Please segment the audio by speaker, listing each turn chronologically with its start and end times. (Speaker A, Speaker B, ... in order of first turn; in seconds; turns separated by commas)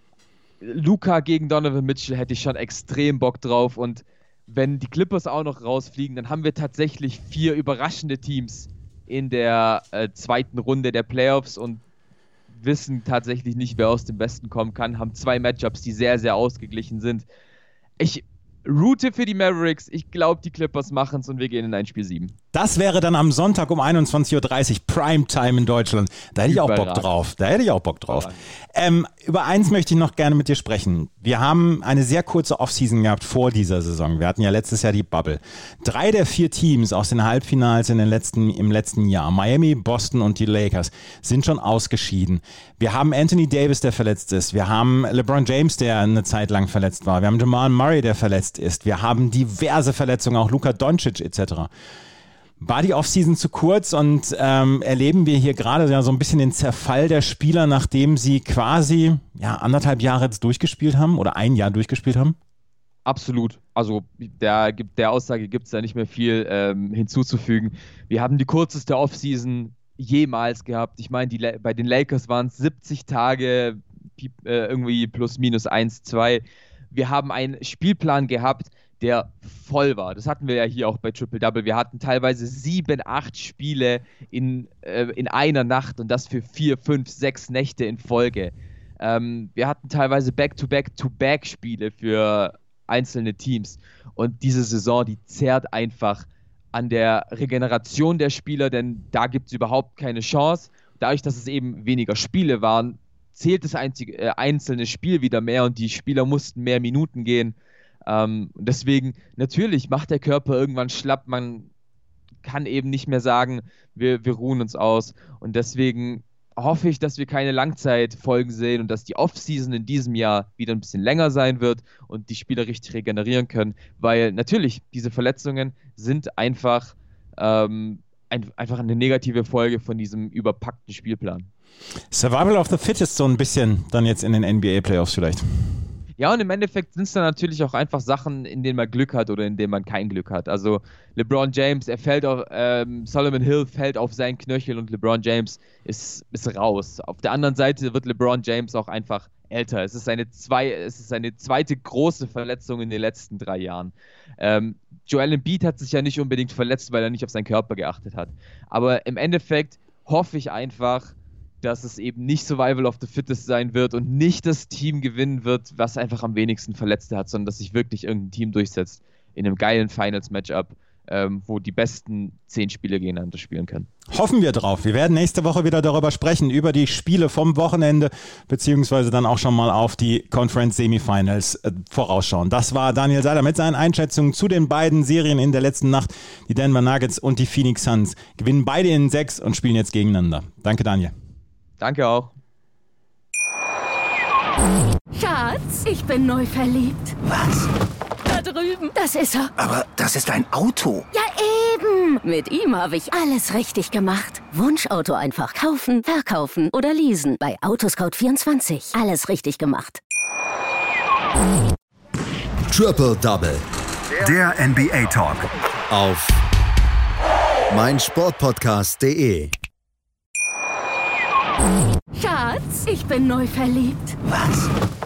Speaker A: 0.6-11.8, Speaker A: 12.5-17.2, Speaker A: 18.0-22.3, Speaker B: 22.5-51.7, Speaker A: 26.5-27.1, Speaker A: 28.1-28.4, Speaker B: 52.6-62.3, Speaker A: 63.0-107.5, Speaker A: 108.1-111.7, Speaker A: 112.4-131.5, Speaker B: 132.1-135.8, Speaker A: 136.2-173.9, Speaker B: 174.1-191.1, Speaker A: 191.8-192.3, Speaker C: 195.1-197.2, Speaker D: 197.2-197.7, Speaker C: 198.3-199.5, Speaker D: 199.6-201.1, Speaker C: 201.1-210.0, Speaker E: 212.7-213.6, Speaker B: 214.2-215.5, Speaker E: 215.9-216.4, Speaker E: 217.7-219.5, Speaker C: 222.1-224.2, Speaker D: 224.3-224.7